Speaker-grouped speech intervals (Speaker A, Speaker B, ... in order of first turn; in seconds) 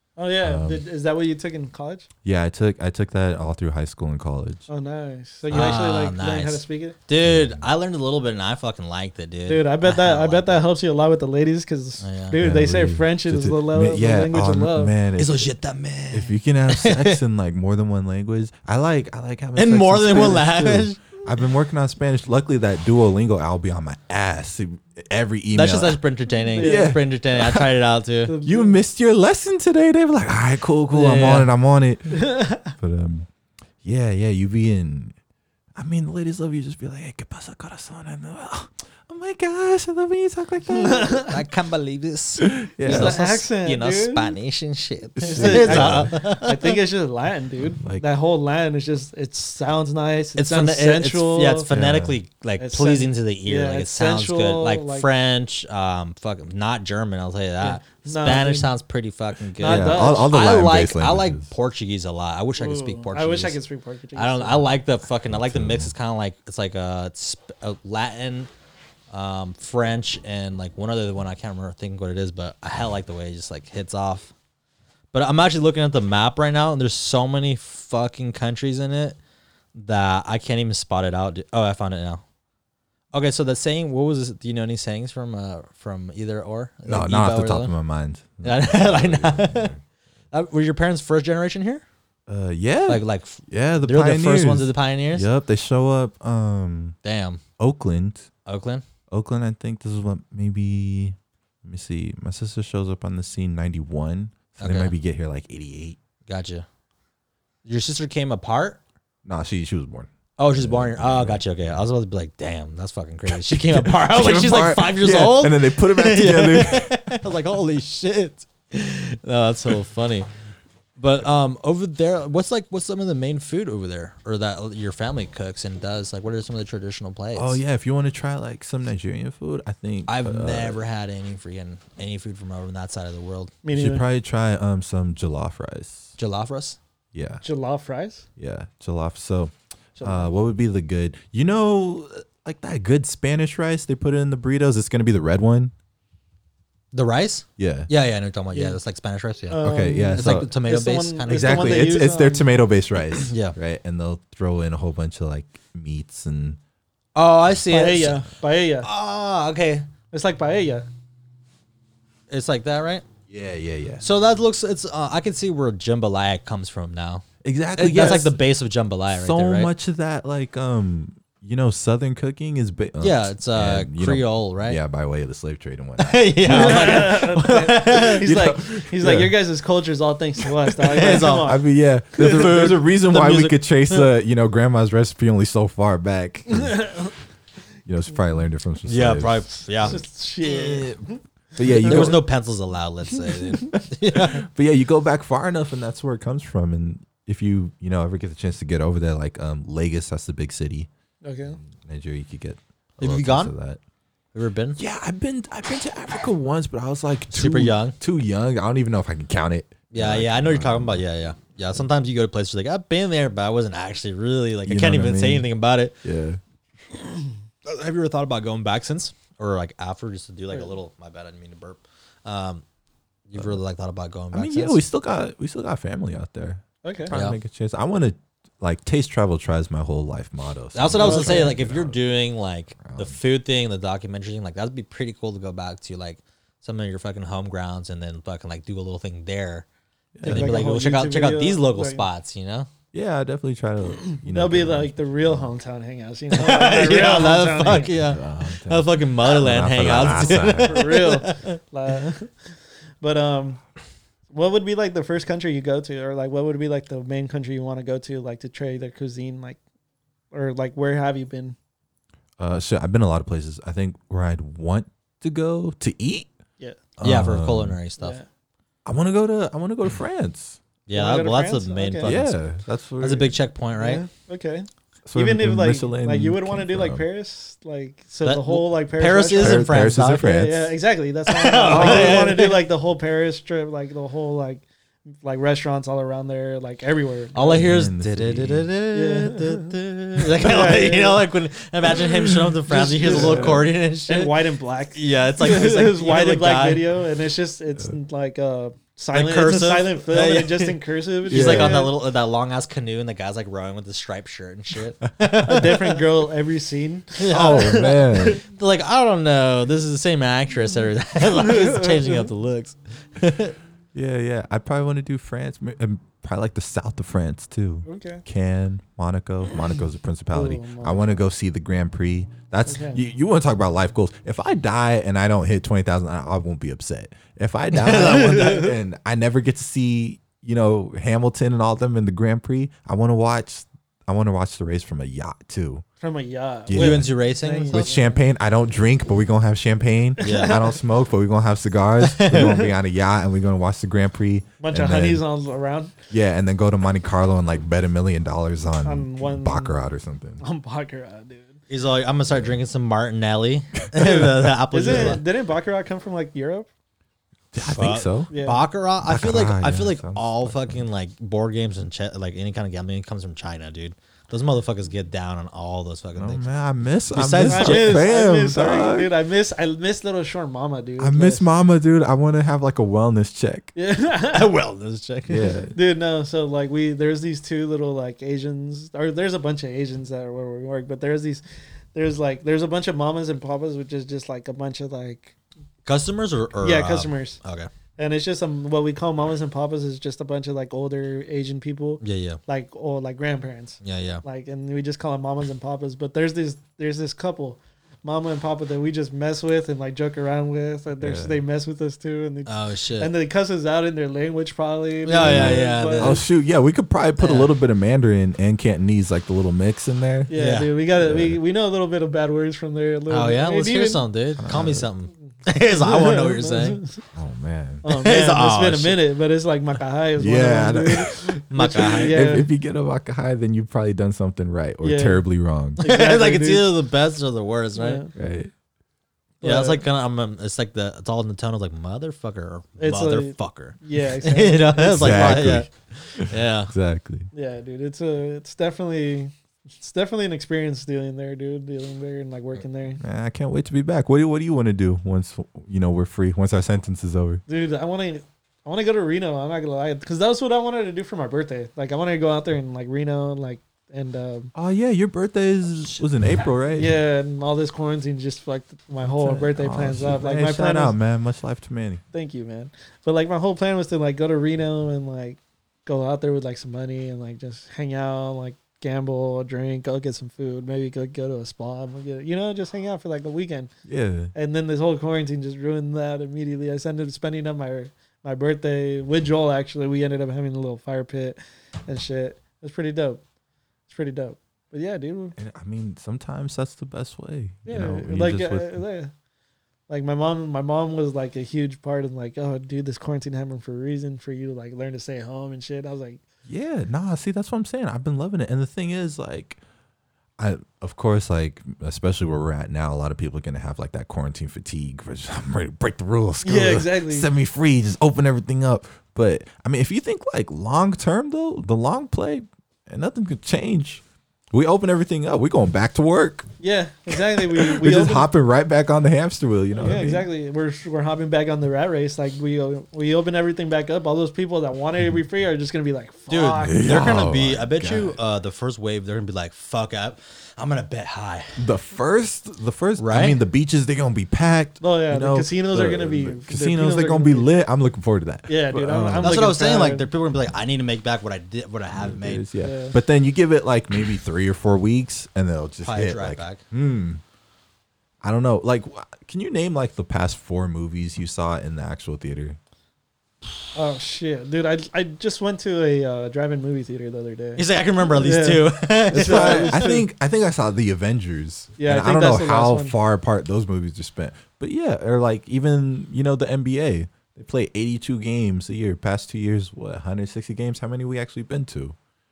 Speaker A: 0.2-2.1, 4.7-7.0, 9.5-14.9, 26.5-27.0, 28.3-28.8, 32.1-32.7, 40.7-41.3, 42.8-44.4, 45.2-51.7, 52.6-55.1, 57.6-58.7, 59.6-60.3, 62.6-64.7, 133.6-134.0, 137.4-138.2, 140.0-140.3, 148.5-148.8, 149.5-152.5, 157.7-158.9, 160.1-160.8, 176.4-181.6, 182.2-182.6, 186.5-187.1, 189.8-192.2, 201.2-201.6, 226.8-227.1, 230.9-231.6, 240.2-242.0, 244.1-247.9, 250.1-252.3, 253.0-253.6, 254.3-259.6, 260.3-261.6, 268.0-268.2, 270.9-272.1, 273.8-284.6, 285.2-287.6, 288.9-289.7, 290.4-291.2, 292.7-301.9, 305.4-308.4, 311.3-312.3, 317.9-318.2, 320.3-321.1, 322.7-323.0, 327.9-328.7, 336.0-338.2, 340.2-340.6, 344.6-345.9, 348.8-349.7, 350.4-351.6, 354.7-356.7, 358.3-358.6, 367.4-371.4, 373.7-374.5, 375.7-381.4, 381.9-385.3, 386.6-387.4, 388.0-406.2, 410.3-414.0, 415.8-417.0, 417.8-422.5, 424.8-425.2, 425.8-426.7, 427.7-428.1, 429.4-429.8, 432.8-435.6, 437.3-443.0, 447.5-454.5, 456.7-460.9, 462.1-473.7, 474.3-483.2, 483.9-485.3, 487.6-489.1, 489.9-496.2, 506.4-507.3, 516.6-518.3, 519.8-527.0, 534.8-537.5, 538.5-540.1, 542.6-542.9, 553.7-560.0, 561.8-562.9
Speaker B: 0.4-0.8, 2.2-4.7, 7.2-7.7, 12.3-15.5, 16.1-26.0, 26.6-27.7, 28.4-33.3, 33.8-35.1, 35.8-41.3, 42.4-43.2, 45.1-46.1, 47.8-48.0, 51.7-52.2, 59.6-61.5, 65.3-65.9, 86.9-89.8, 92.3-97.0, 97.6-98.3, 99.1-106.0, 109.2-111.7, 113.3-117.1, 127.3-130.8, 133.7-136.2, 137.1-137.4, 138.4-145.7, 147.6-147.9, 149.6-150.5, 151.2-156.6, 163.3-164.0, 167.4-168.3, 169.1-177.1, 178.2-179.3, 181.0-187.1, 187.8-190.0, 190.6-191.0, 191.6-192.2, 193.7-200.9, 201.6-203.8, 204.8-211.0, 214.7-215.5, 216.0-216.4, 224.3-232.0, 232.8-233.2, 240.1-240.5, 242.9-245.5, 247.6-251.0, 262.4-266.3, 267.0-267.8, 268.9-270.6, 272.0-273.3, 275.1-277.0, 279.4-280.7, 281.7-282.3, 287.5-288.7, 293.0-293.7, 301.3-301.9, 307.3-308.4, 313.9-335.8, 336.7-337.1, 337.7-345.2, 346.1-350.4, 354.0-354.3, 354.8-355.2, 357.5-358.3, 359.0-360.8, 366.1-369.1, 371.0-373.7, 375.3-375.7, 401.0-401.4, 405.2-410.3, 411.0-411.4, 414.4-414.9, 417.1-417.8, 420.2-425.8, 428.1-428.5, 434.8-437.3, 443.0-447.4, 454.5-456.9, 459.1-462.0, 473.9-474.3, 485.4-488.8, 496.4-499.6, 500.4-516.5, 517.1-520.3, 526.6-528.2, 531.6-539.4, 541.9-547.2, 548.2-552.6, 559.1-572.0
Speaker C: 5.5-10.6, 12.0-12.4, 15.2-17.2, 19.6-21.0, 25.5-28.3, 31.0-31.4, 41.2-46.8, 50.4-63.6, 64.2-68.5, 69.1-74.3, 75.1-79.2, 79.7-82.2, 83.1-87.7, 88.4-89.7, 90.3-91.8, 92.9-95.3, 97.0-97.4, 98.4-98.8, 104.6-104.9, 106.3-106.7, 107.6-108.8, 110.4-120.3, 121.0-127.6, 130.1-133.5, 136.2-136.8, 146.9-151.9, 153.2-153.6, 157.1-158.2, 158.8-159.9, 162.3-163.0, 164.0-167.2, 167.8-169.7, 173.0-174.8, 176.0-178.2, 180.8-181.6, 182.2-184.1, 188.9-190.8, 191.7-194.4, 203.0-203.5, 204.3-204.8, 207.3-208.0, 209.9-215.9, 217.6-222.6, 223.3-224.8, 227.1-227.4, 230.7-239.7, 240.2-242.7, 246.3-251.6, 267.0-268.2, 270.9-272.4, 273.0-274.0, 278.2-280.4, 281.3-282.6, 287.3-294.3, 294.9-296.9, 299.1-300.8, 301.3-306.0, 307.2-313.5, 327.8-328.6, 336.7-337.9, 340.2-340.6, 342.0-342.6, 351.7-355.2, 357.6-366.4, 367.1-368.1, 374.3-375.5, 385.8-387.7, 392.0-392.4, 393.8-394.2, 402.4-403.1, 405.0-406.2, 407.2-407.5, 410.3-410.7, 413.1-416.8, 417.9-419.0, 421.5-422.2, 425.8-428.0, 429.4-436.7, 526.3-531.6, 533.0-533.4, 539.2-542.4, 545.8-546.6, 557.5-559.8